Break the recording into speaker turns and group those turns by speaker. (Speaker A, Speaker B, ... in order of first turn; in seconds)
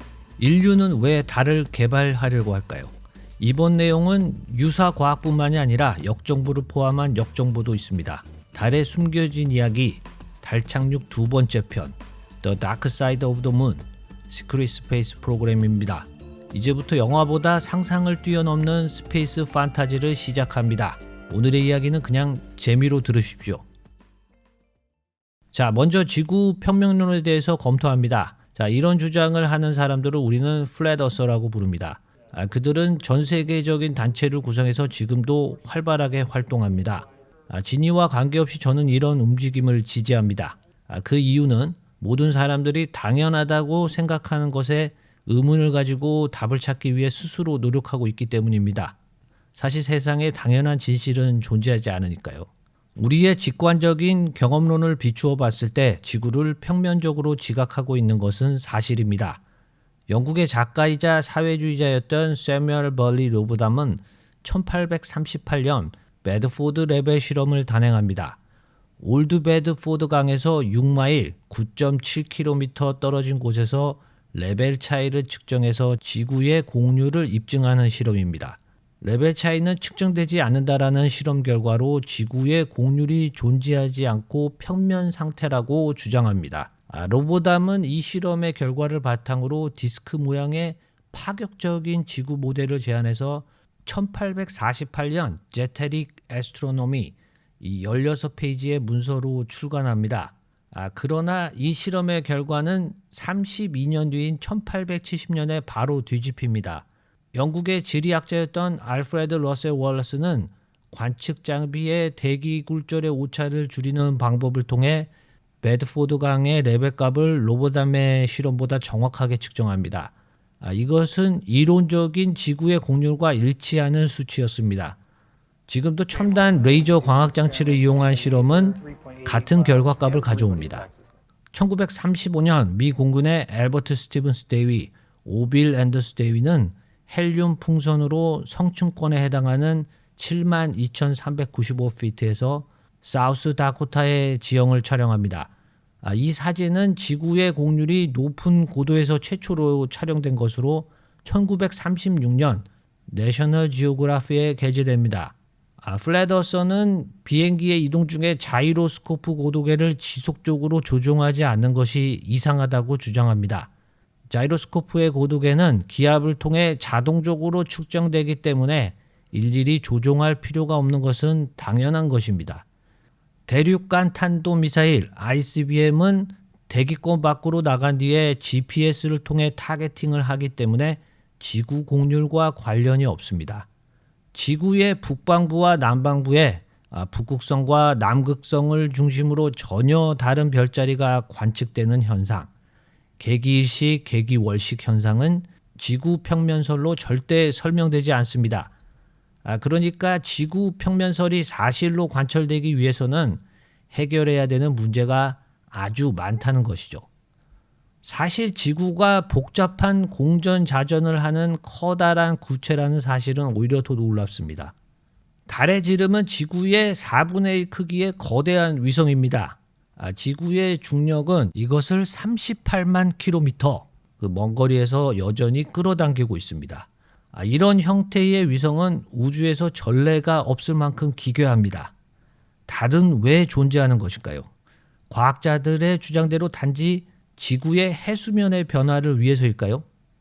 Speaker A: 0.4-23.6, 25.5-49.0, 49.5-59.4, 60.1-68.4, 69.0-115.1, 115.6-125.0, 125.7-130.9, 131.5-145.5, 146.0-163.7, 164.3-172.7, 173.5-183.7, 184.3-192.5, 193.2-198.7, 199.4-207.1, 208.0-214.7, 215.5-231.9, 232.7-234.5, 235.1-239.8